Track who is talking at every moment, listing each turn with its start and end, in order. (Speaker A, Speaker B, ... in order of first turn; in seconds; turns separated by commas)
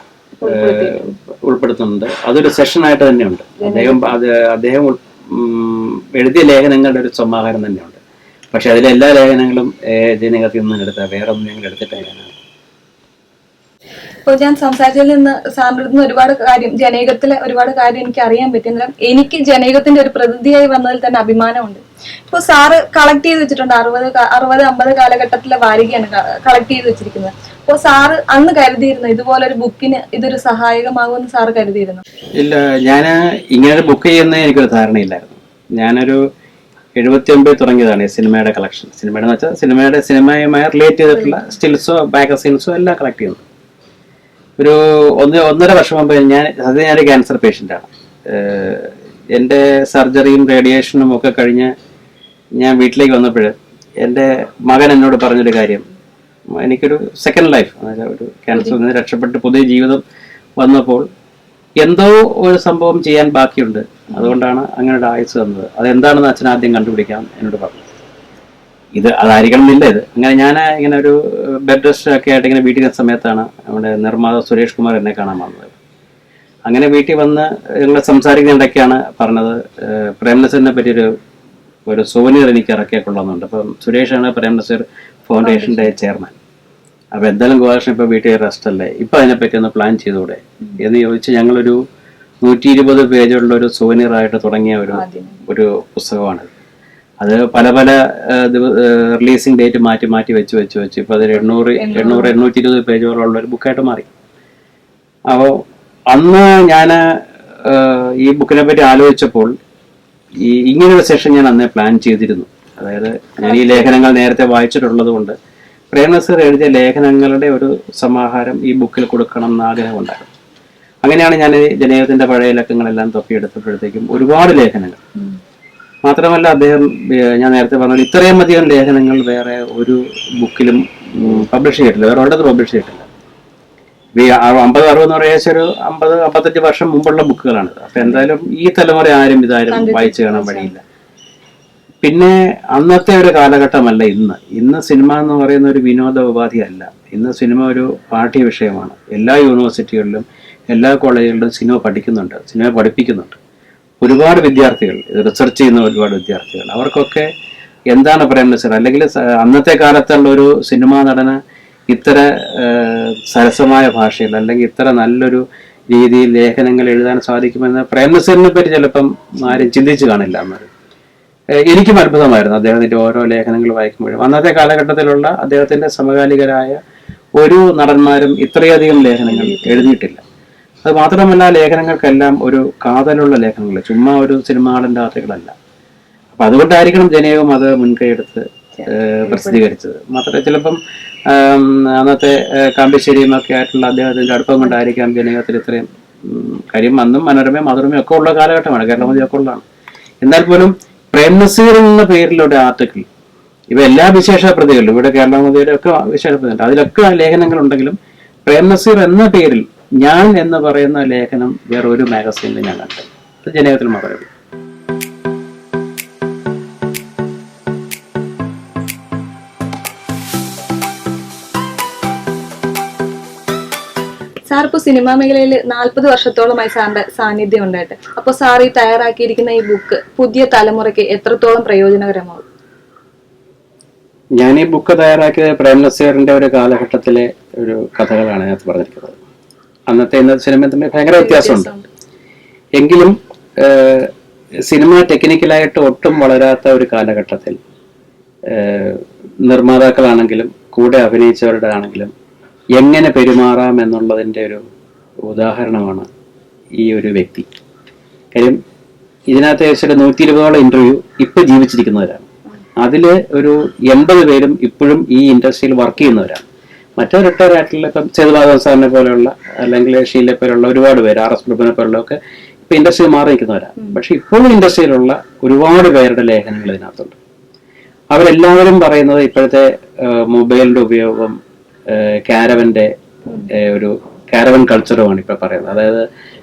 Speaker A: 0.4-1.1, Speaker B: 0.4-8.0, Speaker A: 3.6-4.1, Speaker B: 8.5-12.3, Speaker A: 14.2-32.0, Speaker B: 32.4-36.2, Speaker B: 37.0-43.4, Speaker B: 44.6-51.7, Speaker B: 52.6-55.9, Speaker B: 56.6-60.0, Speaker B: 60.6-61.1, Speaker B: 61.8-67.9, Speaker B: 69.0-75.7, Speaker B: 76.7-81.1, Speaker B: 81.9-86.4, Speaker A: 85.4-85.9, Speaker B: 87.2-91.8, Speaker B: 92.4-96.5, Speaker A: 95.0-95.4, Speaker B: 97.2-104.1, Speaker A: 101.6-102.3, Speaker B: 105.3-105.5, Speaker B: 106.1-107.0, Speaker B: 107.6-109.5, Speaker B: 110.4-115.4, Speaker A: 113.4-113.9, Speaker B: 115.9-120.3, Speaker B: 121.0-125.0, Speaker B: 126.0-133.1, Speaker B: 134.2-140.8, Speaker A: 139.7-140.7, Speaker B: 142.0-153.4, Speaker B: 154.0-157.3, Speaker B: 157.9-170.7, Speaker B: 171.7-176.8, Speaker B: 177.4-180.2, Speaker A: 179.3-179.8, Speaker B: 180.8-185.5, Speaker B: 186.3-199.7, Speaker A: 189.3-189.6, Speaker B: 200.2-203.1, Speaker B: 203.7-214.3, Speaker A: 224.5-232.4, Speaker B: 234.4-239.2, Speaker B: 239.9-241.7, Speaker A: 241.2-241.9, Speaker B: 242.8-244.1, Speaker B: 244.7-247.6, Speaker B: 248.5-252.1, Speaker B: 252.8-254.6, Speaker B: 255.3-256.1, Speaker B: 256.8-257.5, Speaker B: 258.3-258.6, Speaker B: 259.3-262.3, Speaker B: 262.8-266.4, Speaker B: 267.0-277.2, Speaker B: 278.1-282.9, Speaker B: 283.5-286.0